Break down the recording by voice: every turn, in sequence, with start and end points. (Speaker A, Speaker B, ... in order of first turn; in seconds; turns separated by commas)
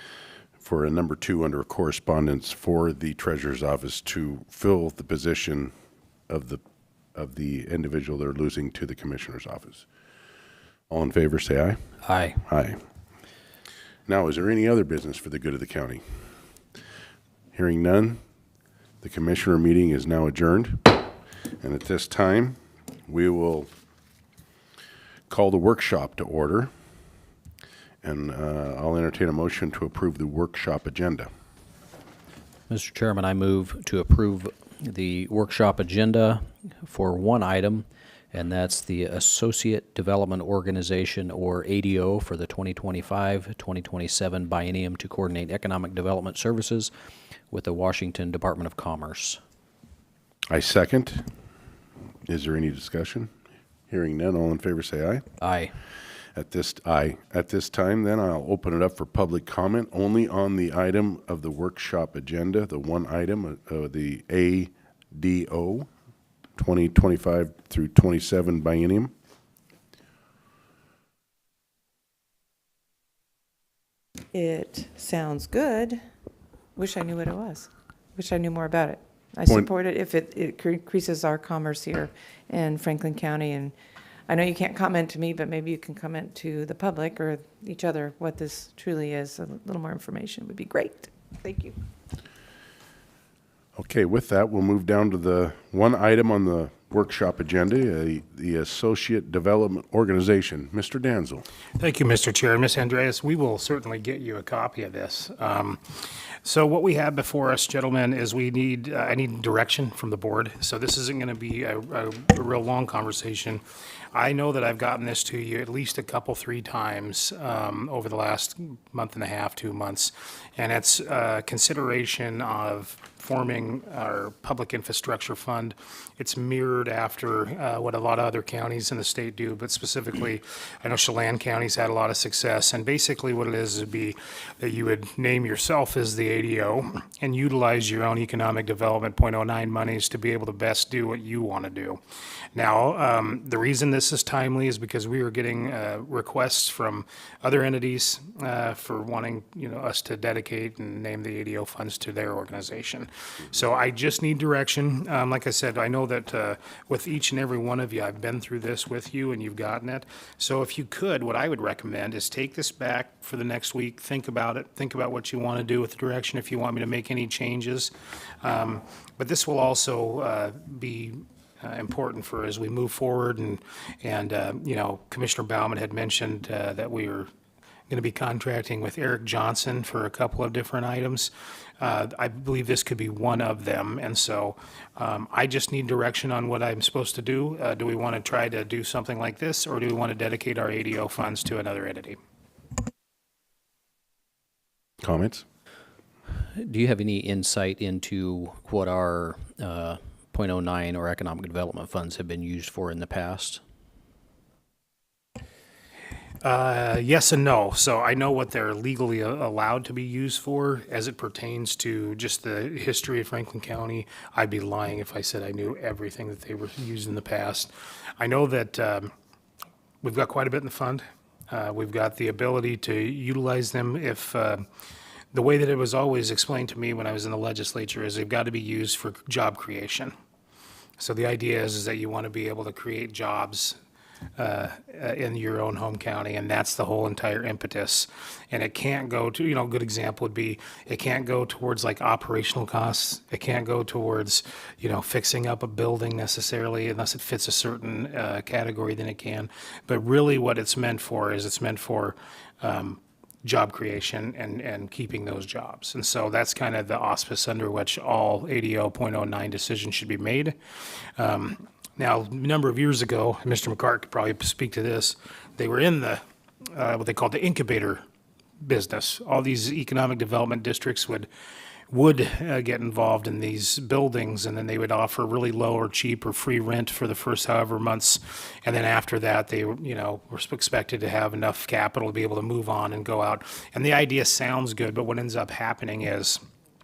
Speaker A: 0.6-5.7, Speaker A: 6.3-6.6, Speaker A: 7.2-9.9, Speaker A: 10.9-11.8, Speaker B: 12.1-12.4, Speaker A: 12.4-12.8, Speaker A: 14.1-16.0, Speaker A: 17.5-18.2, Speaker A: 19.0-20.9, Speaker A: 21.6-23.7, Speaker A: 25.3-26.7, Speaker A: 28.0-31.3, Speaker B: 32.7-46.9, Speaker B: 47.5-49.4, Speaker A: 50.5-51.2, Speaker A: 52.3-53.3, Speaker A: 53.9-55.2, Speaker B: 55.4-55.7, Speaker A: 56.4-65.9, Speaker A: 66.6-69.1, Speaker C: 74.3-76.0, Speaker C: 76.8-83.7, Speaker C: 84.3-91.8, Speaker A: 93.8-101.5, Speaker D: 101.8-105.8, Speaker D: 106.4-113.6, Speaker D: 114.1-142.0, Speaker D: 142.5-177.3, Speaker D: 177.9-192.2, Speaker A: 195.0-195.4, Speaker B: 196.6-203.6, Speaker D: 206.4-219.1, Speaker D: 220.0-224.6, Speaker D: 225.3-230.1, Speaker D: 231.0-233.8, Speaker D: 234.4-260.6, Speaker D: 261.2-268.0, Speaker D: 268.6-271.3, Speaker D: 271.9-286.4